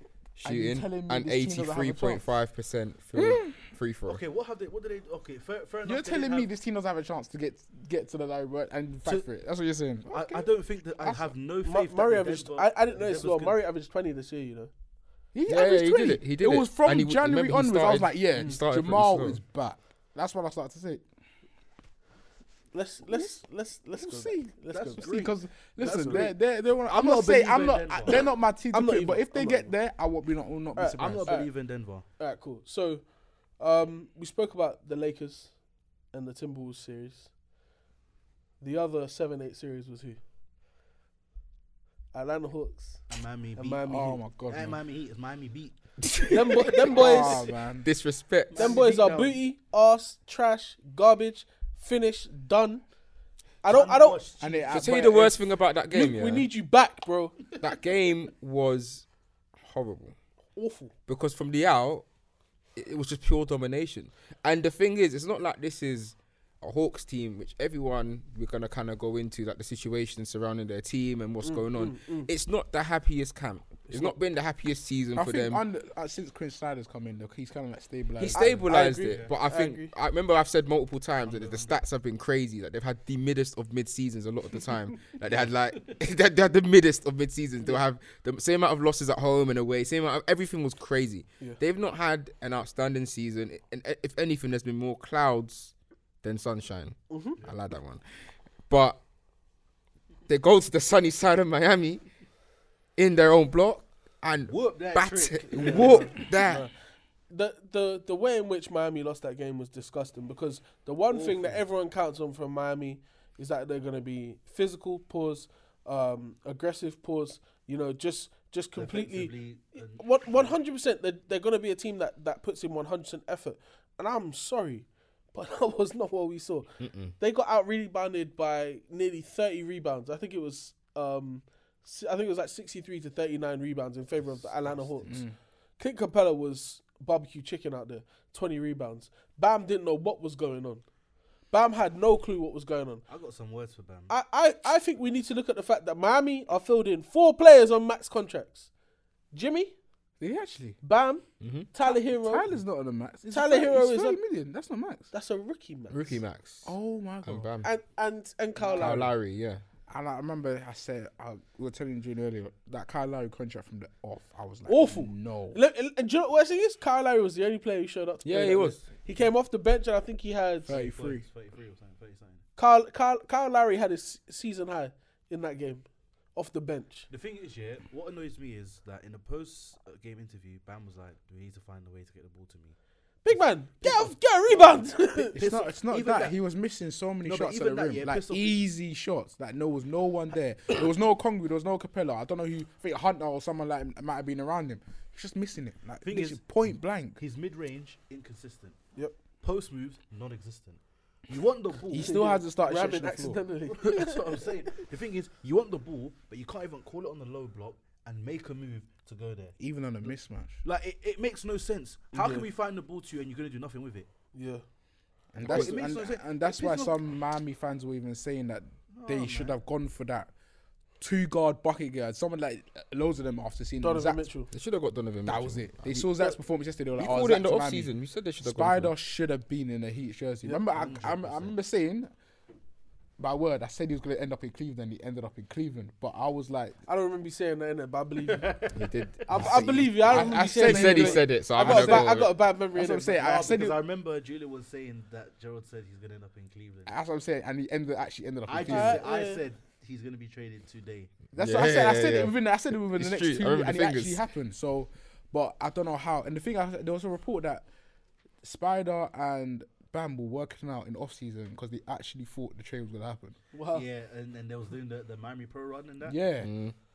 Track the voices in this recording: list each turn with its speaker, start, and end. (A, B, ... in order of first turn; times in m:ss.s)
0:00.4-0:04.2 A
0:00.4-0:02.3 B
0:03.1-0:03.5 B
0:04.1-0:06.5 C
0:05.8-0:10.5 B
0:10.0-0:13.6 C
0:11.0-0:11.3 B
0:11.6-0:14.7 D
0:15.3-0:21.0 B
0:15.5-0:19.4 A
0:22.7-0:25.2 D
0:23.1-0:23.4 B
0:24.0-0:31.3 B
0:24.7-0:28.3 C
0:25.8-0:26.3 D
0:28.7-0:29.7 D
0:30.8-0:31.5 D
0:30.8-0:32.0 C
0:32.2-0:35.5 D
0:36.1-0:37.3 D
0:38.6-0:40.2 D
0:42.1-0:43.0 D
0:43.1-0:47.6 C
0:43.6-0:44.2 D
0:43.9-0:44.8 B
0:46.3-0:47.4 D
0:46.8-0:47.9 B
0:47.8-0:48.7 A
0:48.5-0:49.4 C
0:48.5-0:52.8 D
0:53.6-0:54.2 D
0:53.6-0:54.9 C
0:54.4-0:55.4 B
0:54.7-0:56.5 A
0:55.9-0:57.4 D
0:57.6-0:59.0 A
0:59.6-1:00.2 A
1:00.6-1:00.9 D
1:01.1-1:02.0 A
1:02.8-1:15.6 A
1:11.4-1:12.3 D
1:13.9-1:14.2 D
1:15.1-1:18.6 B
1:18.2-1:38.0 A
1:18.3-1:19.9 D
1:19.0-1:19.3 C
1:21.2-1:21.8 C
1:25.3-1:25.9 C
1:37.1-1:37.4 D
1:38.7-1:39.0 A
1:40.3-1:42.0 A
1:43.0-1:46.6 A
1:44.5-1:46.2 C
1:45.7-1:46.7 D
1:47.3-2:15.2 D
1:51.1-1:51.6 C
1:58.8-2:00.5 C
2:06.8-2:07.1 A
2:14.2-2:15.2 C
2:15.1-2:15.3 B
2:15.8-2:20.8 D
2:21.5-2:23.0 D
2:23.1-2:24.1 C
2:24.1-2:28.7 D
2:29.3-2:29.7 D
2:30.2-2:30.8 B
2:30.8-2:32.5 D
2:31.4-2:31.7 A
2:31.8-2:35.1 B
2:33.3-2:34.2 D
2:35.1-2:36.2 D
2:35.9-2:37.7 A
2:36.6-2:37.5 B
2:37.6-2:39.1 D
2:38.7-2:39.6 A
2:38.8-2:39.1 B
2:39.9-2:45.6 B
2:44.7-2:50.7 D
2:48.2-2:48.8 A
2:50.6-2:52.4 C
2:50.7-2:51.2 B
2:52.6-2:57.1 D
2:57.1-3:02.7 C
3:03.2-3:05.4 D
3:03.4-3:06.4 C
3:05.3-3:17.2 B
3:07.2-3:08.6 C
3:16.0-3:16.6 C
3:17.2-3:18.8 C
3:19.4-3:22.2 C
3:21.9-3:23.4 B
3:22.0-3:24.7 D
3:23.6-3:29.6 C
3:29.6-3:30.6 B
3:30.6-3:34.1 C
3:32.1-3:32.5 D
3:34.3-3:34.6 D
3:35.3-3:40.3 B
3:35.4-3:37.0 C
3:38.9-3:39.6 C
3:41.0-3:44.2 B
3:43.8-3:44.5 D
3:44.5-3:46.1 A
3:45.2-3:47.9 B
3:47.0-3:48.9 A
3:48.4-3:52.1 B
3:50.5-3:51.5 C
3:53.2-3:56.8 B
3:56.9-3:58.6 D
3:58.2-3:59.6 C
3:58.7-4:02.3 A
3:59.2-4:03.2 D
4:00.0-4:03.8 B
4:03.1-4:06.9 C
4:06.8-4:09.0 B
4:08.5-4:11.2 C
4:08.7-4:09.4 D
4:11.3-4:17.6 B
4:11.4-4:14.2 A
4:18.4-4:23.4 B
4:23.5-4:23.8 D
4:23.7-4:26.2 C
4:26.0-4:26.5 B
4:26.4-4:26.7 A